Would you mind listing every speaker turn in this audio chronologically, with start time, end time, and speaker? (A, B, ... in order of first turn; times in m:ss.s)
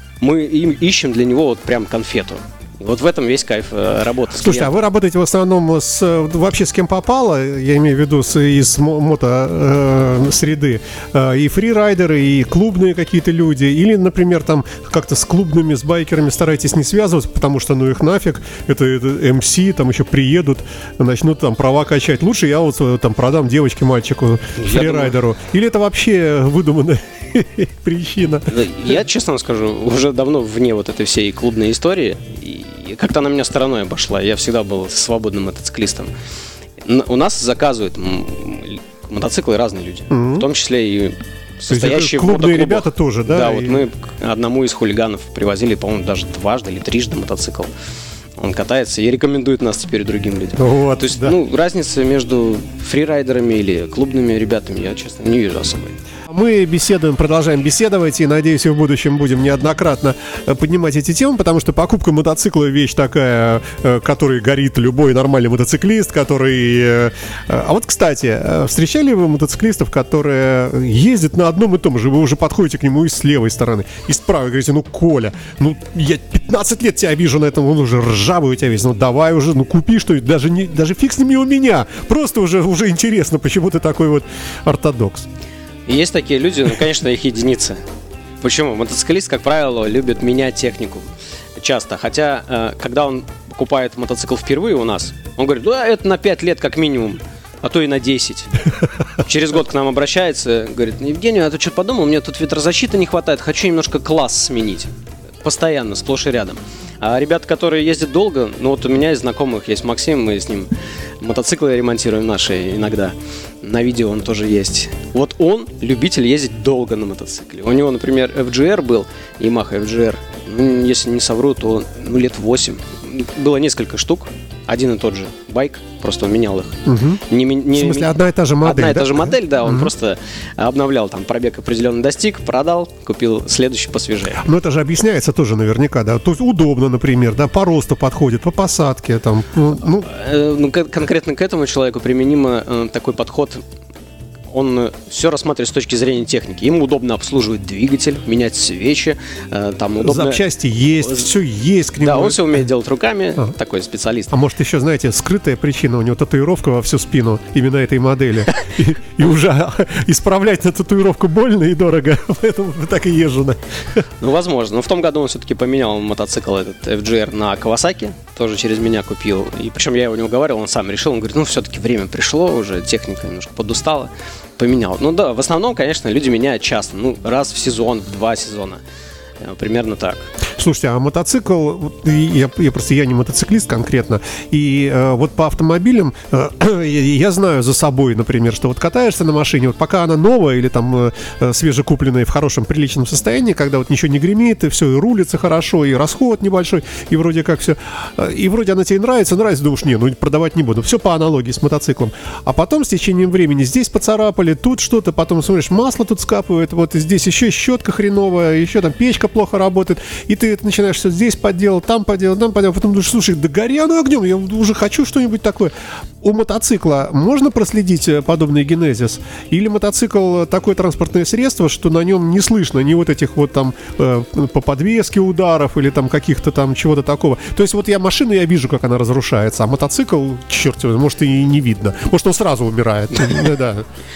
0:00.2-0:04.7 A
0:04.4-0:28.6 B
0:24.6-0:25.2 A
0:28.5-0:36.1 A
0:36.8-0:47.7 A
0:40.1-0:40.5 B
0:41.7-0:43.8 B
0:48.4-0:56.0 A
0:50.6-0:51.4 B
0:56.3-1:25.3 B
1:25.9-1:27.8 A
1:28.4-1:38.5 A
1:39.2-1:44.9 A
1:45.4-2:14.4 A
2:06.8-2:09.9 B
2:14.4-2:20.1 B
2:20.1-2:23.6 A
2:24.5-2:30.4 A
2:30.0-2:32.6 B
2:31.0-2:31.3 A
2:32.0-2:34.3 A
2:34.3-2:44.0 B
2:44.2-2:58.8 A
2:59.4-3:00.3 A
3:00.6-3:53.8 B